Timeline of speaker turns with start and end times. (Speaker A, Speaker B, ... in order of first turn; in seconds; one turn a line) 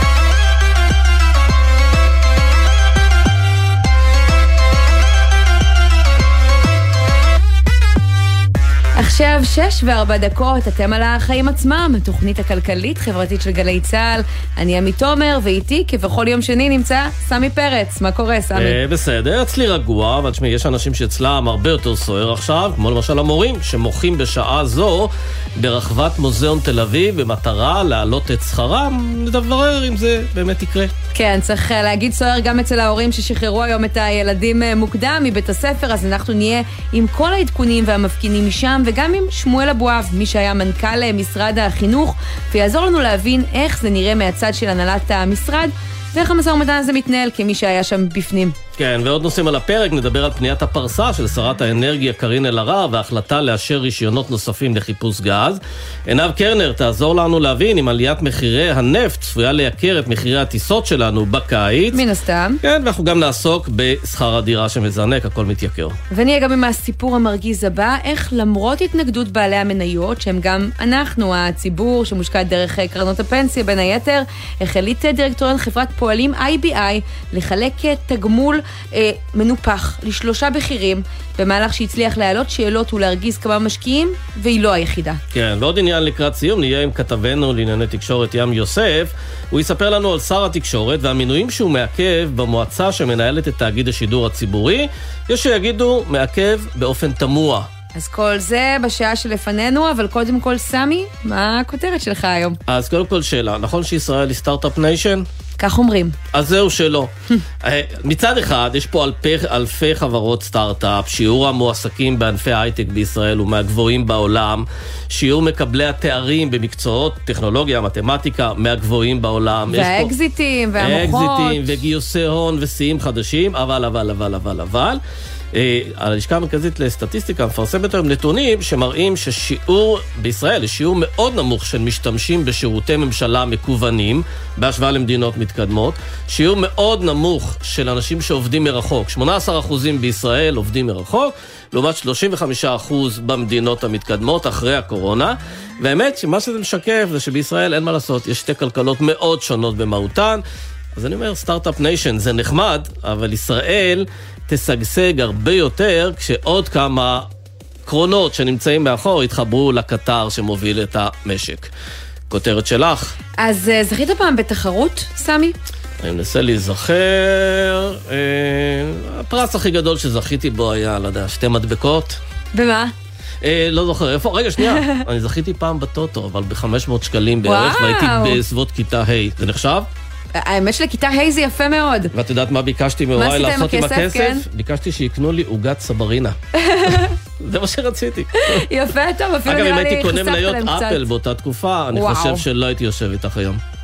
Speaker A: 9.0-18.8
Speaker B: 18.6-30.9
Speaker A: 31.1-48.5
Speaker B: 48.8-62.0
Speaker A: 61.9-62.6
Speaker B: 62.6-66.0
Speaker A: 66.1-85.2
Speaker B: 85.3-97.7
Speaker A: 98.0-102.6
Speaker B: 102.7-105.3
Speaker A: 105.6-106.2
Speaker B: 106.3-107.1
Speaker B: 107.6-120.1
Speaker A: 119.7-121.6
Speaker B: 120.8-125.0
Speaker B: 125.5-150.4
Speaker B: 150.9-157.3
Speaker B: 157.9-161.7
Speaker B: 162.3-163.2
Speaker A: 163.4-165.6
Speaker B: 166.0-172.2
Speaker A: 172.5-172.9
Speaker B: 173.4-179.9
Speaker A: 174.8-175.0
Speaker A: 177.5-178.4
Speaker A: 180.4-182.1
Speaker B: 182.1-186.4
Speaker A: 183.2-184.4
Speaker A: 186.6-187.1
Speaker B: 186.9-188.7
Speaker A: 188.6-191.0
Speaker B: 189.5-193.6
Speaker A: 191.9-192.4